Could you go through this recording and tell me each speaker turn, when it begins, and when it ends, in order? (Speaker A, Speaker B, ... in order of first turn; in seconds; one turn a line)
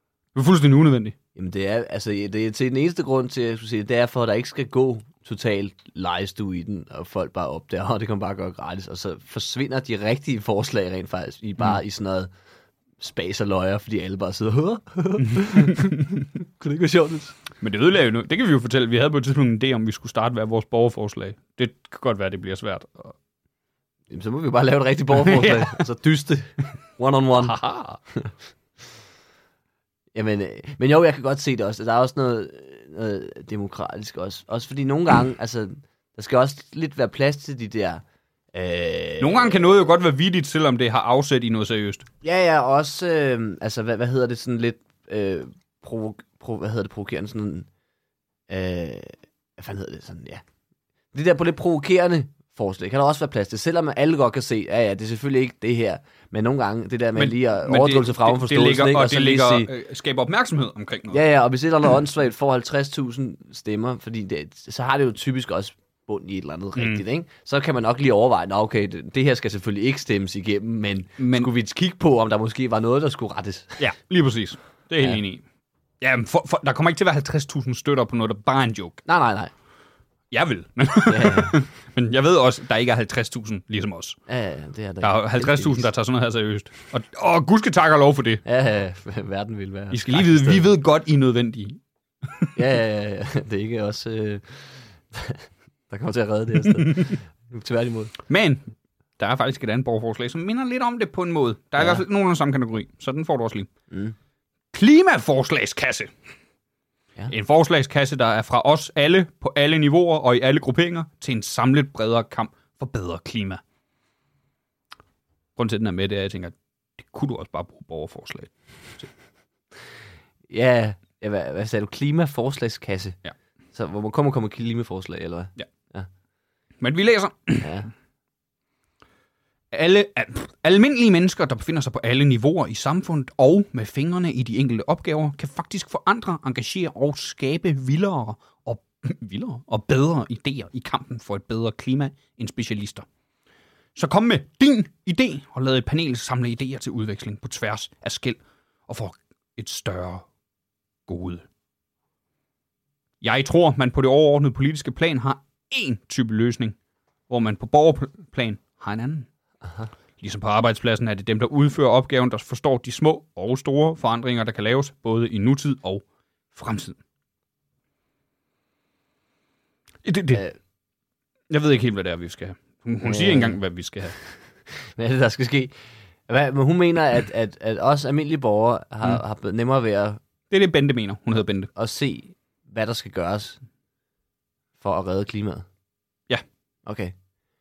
Speaker A: 0.3-1.1
Speaker B: 1.3-12.3
Speaker B: 13.0-17.4
Speaker A: 15.2-16.2
Speaker A: 17.6-23.1
Speaker B: 24.1-27.6
Speaker A: 25.1-25.8
Speaker A: 27.4-28.0
Speaker B: 30.1-39.7
Speaker A: 39.2-42.0
Speaker B: 42.2-47.7
Speaker B: 48.5-50.4
Speaker B: 51.1-59.7
Speaker A: 57.1-61.2
Speaker B: 61.1-73.8
Speaker A: 66.8-67.0
Speaker A: 71.2-71.5
Speaker A: 73.8-75.4
Speaker A: 76.0-79.0
Speaker B: 79.0-79.5
Speaker A: 80.3-84.2
Speaker B: 81.1-81.6
Speaker B: 84.3-85.9
Speaker A: 85.0-88.4
Speaker B: 88.4-90.7
Speaker A: 89.9-92.5
Speaker B: 92.5-98.1
Speaker A: 96.7-97.1
Speaker A: 98.3-98.6
Speaker A: 99.2-103.7
Speaker B: 103.9-104.1
Speaker A: 104.7-106.1
Speaker A: 107.3-113.6
Speaker A: 115.5-119.1
Speaker B: 120.5-123.2
Speaker B: 123.7-126.1
Speaker A: 126.8-127.7
Speaker B: 127.6-127.9
Speaker A: 129.7-143.1
Speaker A: 143.9-150.2
Speaker A: 151.1-151.4
Speaker A: 153.2-156.8
Speaker A: 157.3-159.3
Speaker B: 159.6-159.9
Speaker A: 160.2-167.0
Speaker A: 170.0-170.4
Speaker A: 171.5-174.1
Speaker B: 173.0-173.6
Speaker B: 174.9-175.7
Speaker B: 176.3-180.2
Speaker A: 180.5-181.7
Speaker B: 181.7-183.6
Speaker B: 184.8-185.7
Speaker B: 186.8-187.1